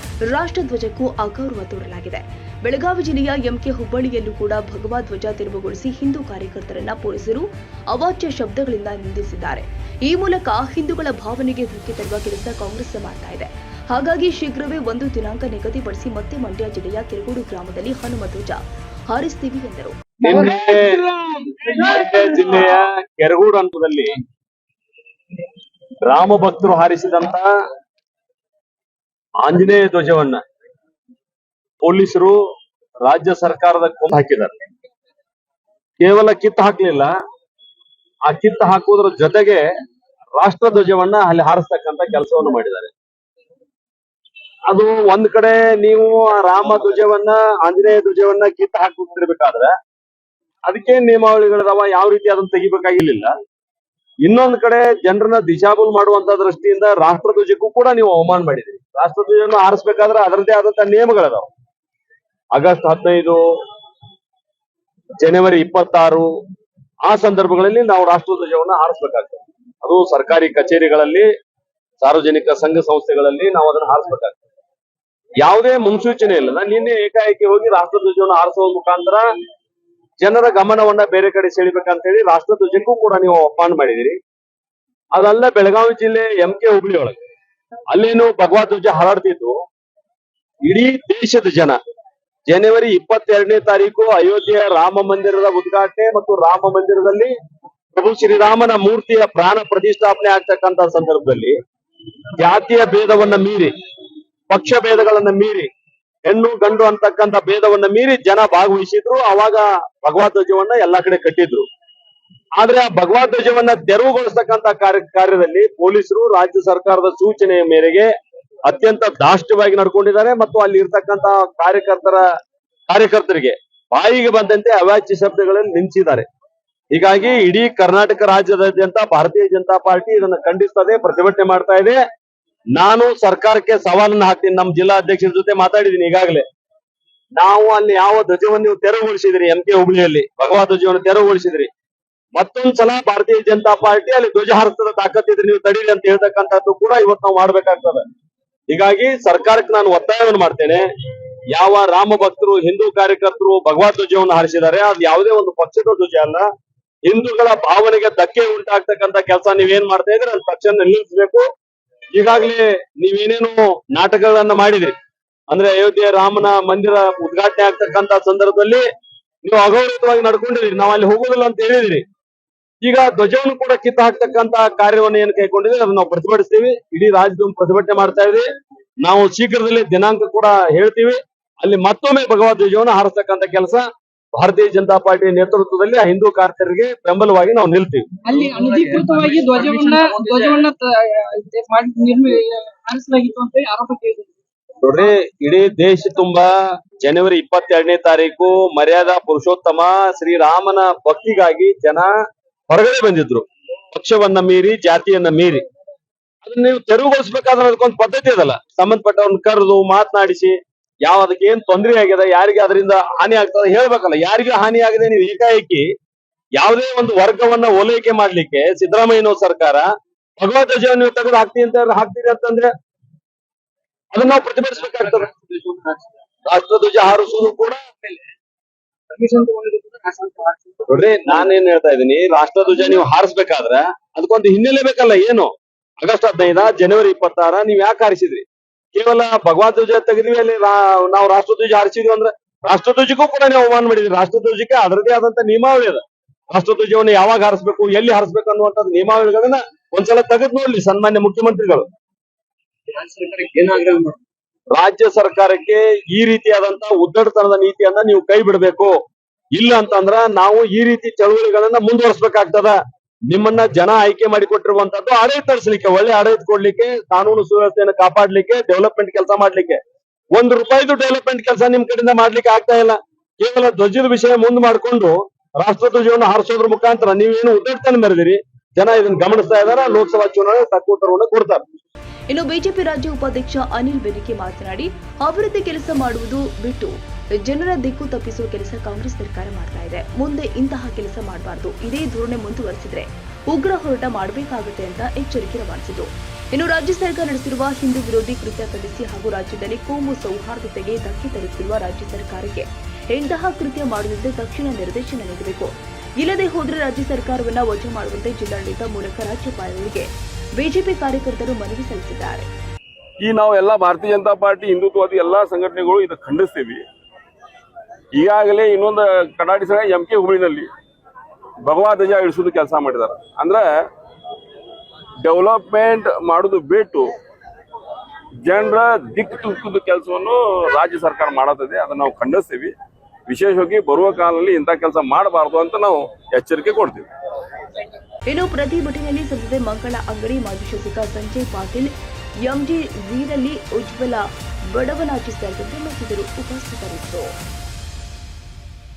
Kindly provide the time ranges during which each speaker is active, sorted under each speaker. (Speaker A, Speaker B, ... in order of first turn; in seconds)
Speaker A: 0.3-20.0, 282.3-312.5, 338.3-341.9, 342.4-347.3
Speaker B: 20.2-21.1, 21.6-24.2, 26.0-27.5, 29.4-30.4, 31.8-32.4, 33.0-34.5, 36.0-37.1, 38.2-39.6, 40.4-42.9, 44.7-49.7, 50.6-53.3, 54.2-61.5, 62.5-63.4, 65.2-66.3, 67.0-71.3, 72.0-74.4, 75.4-79.2, 80.2-84.2, 85.1-87.2, 87.9-89.6, 90.6-91.8, 92.5-97.3, 97.9-101.5, 102.4-103.7, 104.5-105.7, 106.2-111.6, 112.6-118.1, 118.6-122.2, 122.9-126.2, 126.9-132.0, 132.7-136.4, 137.3-141.7, 142.3-148.1, 148.7-150.9, 151.5-156.5, 157.1-161.4, 162.1-164.9, 165.5-168.8, 169.4-172.0, 172.8-178.4, 179.0-188.1, 194.8-202.1, 202.7-205.6, 206.4-215.8, 216.6-222.7, 224.1-225.3, 226.4-227.8, 230.9-251.9, 254.7-258.9, 259.5-262.8, 263.3-269.8, 270.3-281.6
Speaker C: 20.2-22.3, 188.2-194.3, 225.5-226.0, 229.1-230.6, 252.9-254.2
Speaker D: 313.2-316.8, 318.1-320.7, 321.6-323.7, 325.2-327.1, 328.4-332.7, 333.3-337.1